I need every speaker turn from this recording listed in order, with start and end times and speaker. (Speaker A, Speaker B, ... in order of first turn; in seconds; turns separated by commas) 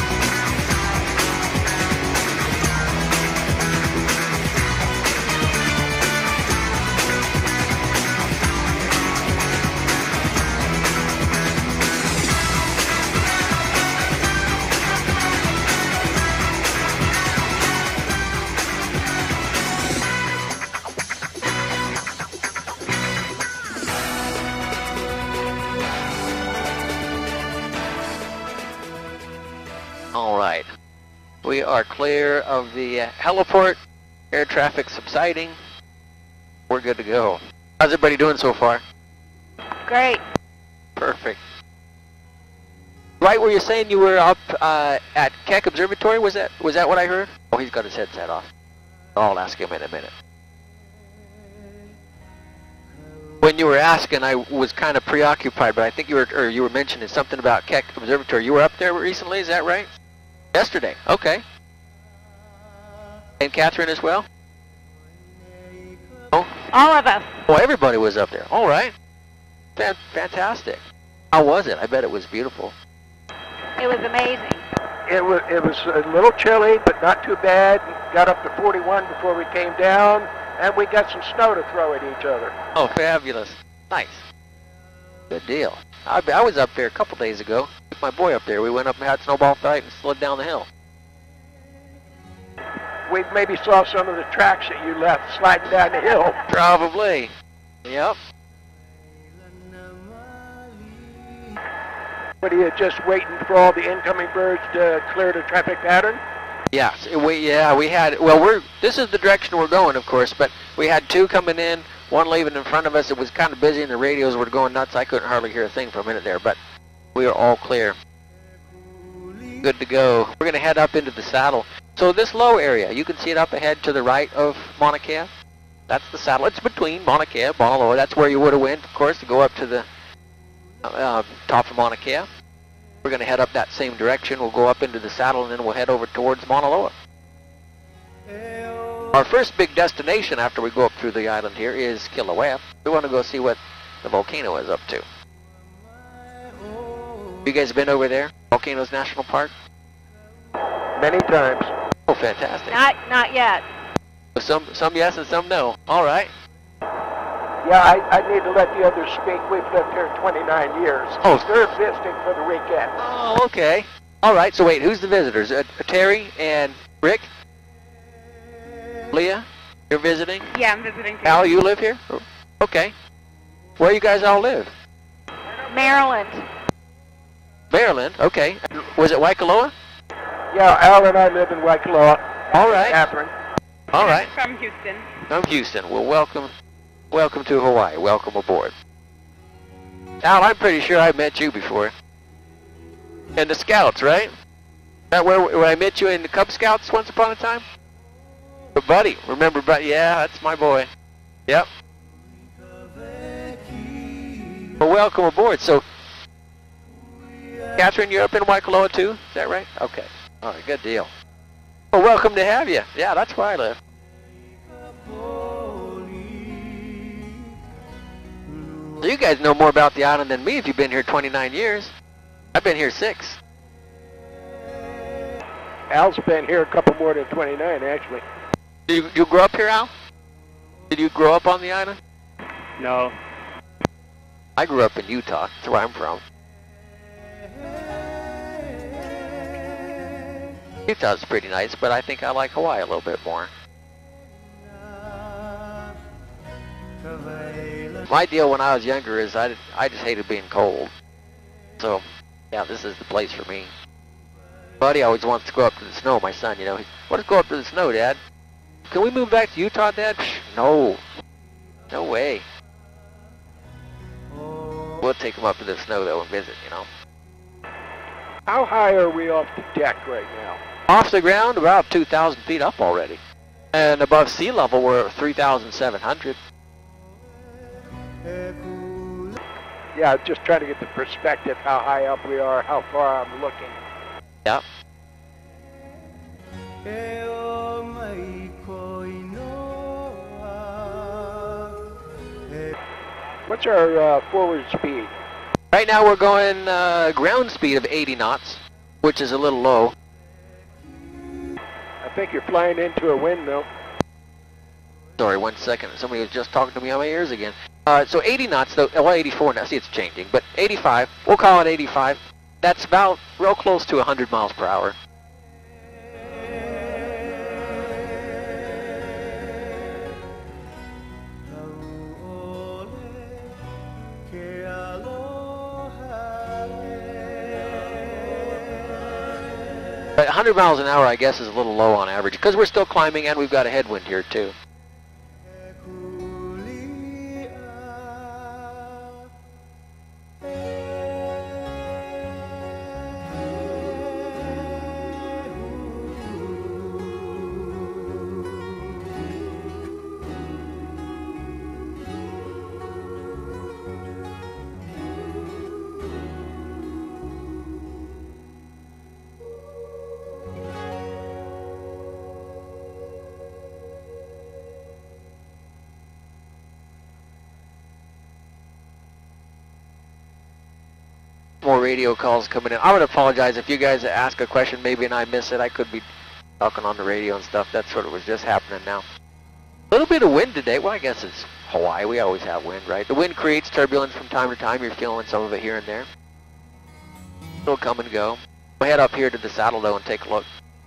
Speaker A: 30.1-30.7, Speaker A: 31.4-33.8, Speaker A: 34.3-35.6, Speaker A: 36.7-38.8, Speaker B: 39.9-40.2, Speaker A: 41.0-41.4, Speaker A: 43.2-48.5, Speaker A: 49.2-50.1, Speaker A: 53.4-59.9, Speaker A: 60.5-61.4, Speaker A: 63.4-64.3, Speaker B: 66.7-67.3, Speaker A: 67.5-68.9, Speaker A: 69.8-72.8, Speaker B: 73.8-74.6, Speaker C: 75.1-82.5, Speaker A: 82.8-84.2, Speaker A: 85.3-90.7, Speaker C: 93.1-96.4, Speaker A: 96.5-97.3, Speaker A: 97.8-98.2, Speaker C: 102.4-106.2, Speaker A: 106.7-116.6, Speaker A: 117.2-118.0, Speaker A: 119.6-125.3, Speaker A: 125.9-129.9, Speaker A: 130.9-132.3, Speaker A: 133.0-136.9, Speaker A: 139.1-145.0, Speaker A: 147.4-149.5, Speaker C: 151.0-151.7, Speaker A: 152.1-152.8, Speaker B: 152.7-153.7, Speaker A: 154.3-156.3, Speaker C: 157.6-162.9, Speaker A: 161.2-161.7, Speaker A: 163.0-167.3, Speaker A: 169.1-170.5, Speaker B: 170.5-171.6, Speaker A: 171.2-172.9, Speaker A: 173.8-174.7, Speaker B: 175.7-176.4, Speaker A: 177.7-179.7, Speaker C: 180.5-183.3, Speaker A: 182.5-183.1, Speaker A: 183.9-184.3, Speaker B: 184.0-185.1, Speaker A: 185.3-186.5, Speaker A: 187.1-188.7, Speaker A: 190.2-191.9, Speaker A: 193.4-194.3, Speaker A: 195.1-197.7, Speaker A: 198.8-200.9, Speaker A: 204.8-205.8, Speaker A: 207.8-211.1, Speaker A: 211.9-213.8, Speaker A: 219.0-221.9, Speaker A: 222.5-223.4, Speaker C: 225.9-228.2, Speaker A: 228.9-229.9, Speaker A: 230.9-232.0, Speaker A: 234.6-236.2, Speaker A: 240.9-243.5, Speaker A: 248.1-250.9, Speaker A: 251.8-253.7, Speaker A: 254.8-258.2, Speaker A: 258.9-261.0, Speaker A: 261.9-262.5, Speaker A: 265.0-266.9, Speaker C: 268.5-270.6, Speaker A: 270.9-273.2, Speaker A: 273.7-276.4, Speaker C: 279.9-283.8, Speaker C: 293.5-295.1, Speaker A: 295.7-299.9, Speaker C: 302.0-303.7, Speaker A: 305.2-315.0, Speaker A: 330.2-334.5, Speaker A: 371.6-376.1, Speaker A: 376.6-379.1, Speaker A: 379.9-386.1, Speaker A: 387.6-390.5